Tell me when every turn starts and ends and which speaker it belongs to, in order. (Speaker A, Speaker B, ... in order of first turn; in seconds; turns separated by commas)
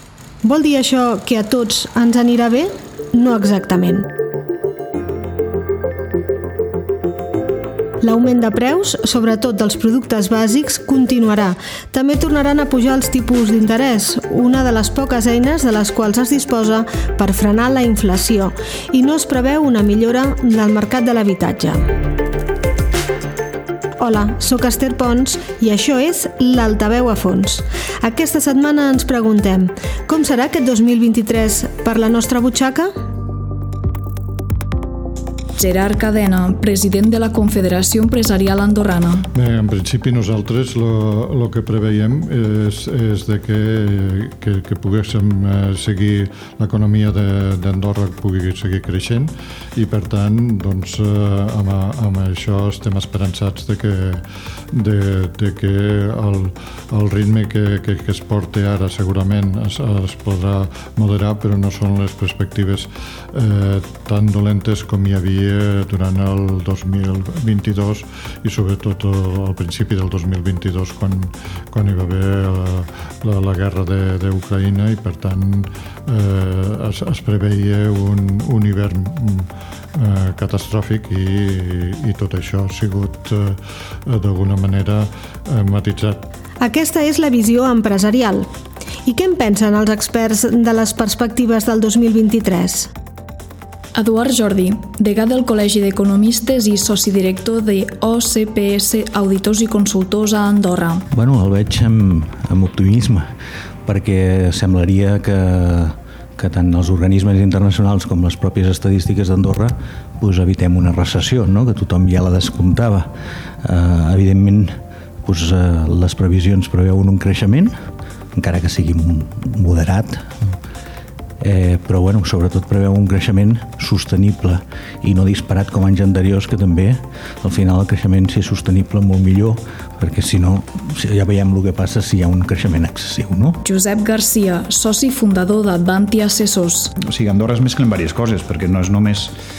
Speaker A: 0.4-4.1, Speaker A: 8.0-21.9, Speaker A: 24.0-32.9, Speaker B: 35.5-39.3, Speaker C: 39.3-86.2, Speaker A: 86.6-88.5, Speaker A: 89.0-92.9, Speaker B: 94.0-101.0, Speaker D: 101.1-103.3, Speaker D: 103.8-113.1, Speaker D: 113.6-117.7, Speaker D: 118.3-120.5, Speaker D: 121.4-133.6, Speaker B: 133.6-136.9, Speaker E: 137.0-139.3